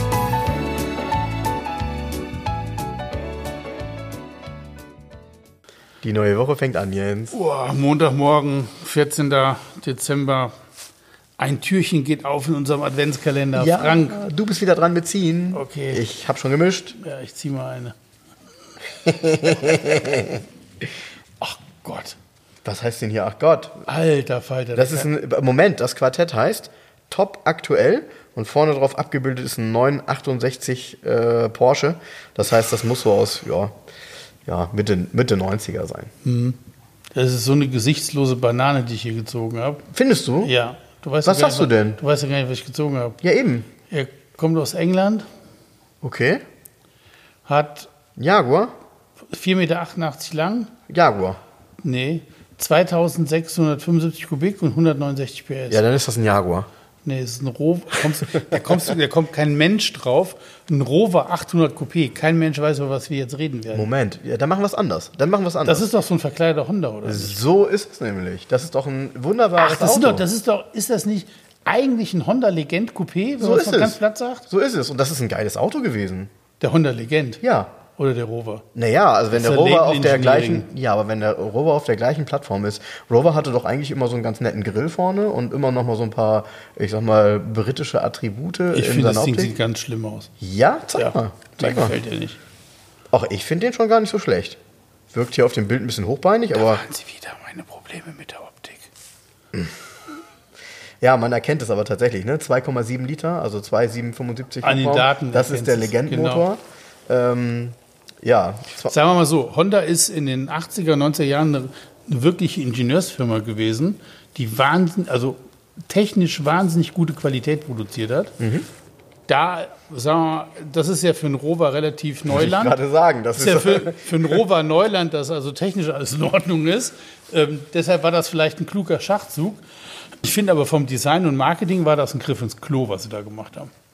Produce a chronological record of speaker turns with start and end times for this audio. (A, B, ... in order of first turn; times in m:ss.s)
0:06.0-0:07.4 A
0:07.3-0:10.5 B
0:11.4-0:14.2 B
0:13.5-0:17.0 A
0:15.5-0:16.0 B
0:17.0-0:17.9 B
0:19.0-0:20.4 A
0:21.4-0:22.2 B
0:22.6-0:23.8 A
0:23.8-0:25.1 B
0:24.7-0:33.7 A
0:34.4-0:36.1 A
0:36.2-0:36.6 B
0:37.1-0:39.8 B
0:39.9-0:40.5 A
0:40.4-0:43.2 B
0:41.2-0:42.0 A
0:43.2-0:43.7 A
0:43.9-0:45.2 B
0:46.0-0:46.4 A
0:47.4-0:47.9 B
0:48.2-0:48.7 A
0:49.3-0:50.7 B
0:50.9-0:51.4 A
0:51.8-0:55.8 B
0:55.7-0:56.7 A
0:57.0-1:03.9 B
1:03.7-1:05.9 A
1:05.6-1:07.4 B
1:07.0-1:10.2 A
1:09.6-1:14.4 B
1:13.4-1:14.0 A
1:14.5-1:16.3 A
1:16.6-1:17.4 B
1:17.4-1:17.7 A
1:17.9-1:18.6 B
1:18.7-1:29.6 A
1:19.3-1:20.7 B
1:28.7-1:30.3 B
1:30.4-1:32.0 A
1:30.9-1:32.4 B
1:33.1-1:34.6 A
1:35.1-1:36.8 A
1:36.5-1:38.9 B
1:41.0-1:49.0 A
1:44.6-1:46.5 B
1:48.9-1:55.4 B
1:55.9-1:58.3 B
1:58.4-1:58.7 A
1:59.3-2:02.8 B
2:02.3-2:04.4 A
2:03.4-2:09.6 B
2:10.2-2:13.7 B